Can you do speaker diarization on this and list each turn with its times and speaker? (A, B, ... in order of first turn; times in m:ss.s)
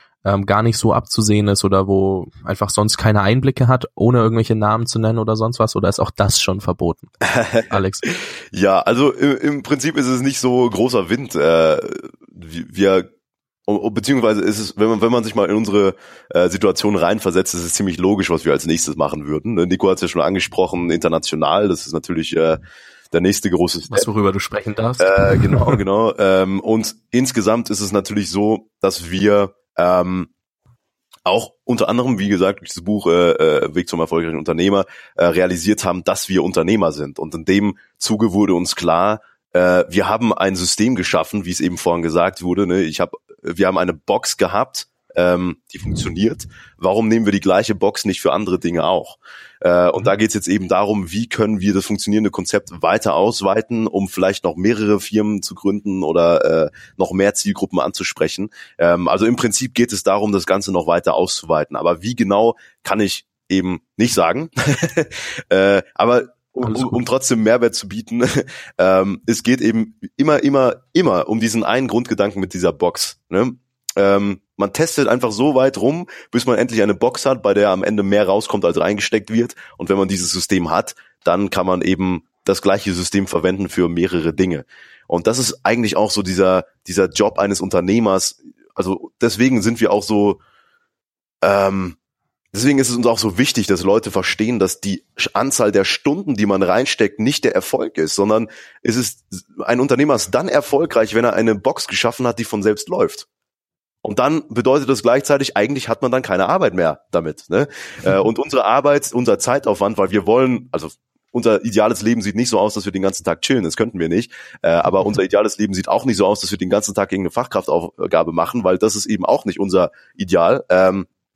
0:00.2-0:07.1 A
0:07.2-0:13.1 B
0:07.7-0:08.1 A
0:13.7-0:22.6 B
0:23.1-0:24.1 B
0:23.9-0:25.8 A
0:25.0-0:30.3 B
0:31.2-1:30.4 B
1:06.6-1:07.0 A
1:31.4-1:32.0 B
1:32.5-1:43.2 B
1:44.0-2:01.1 B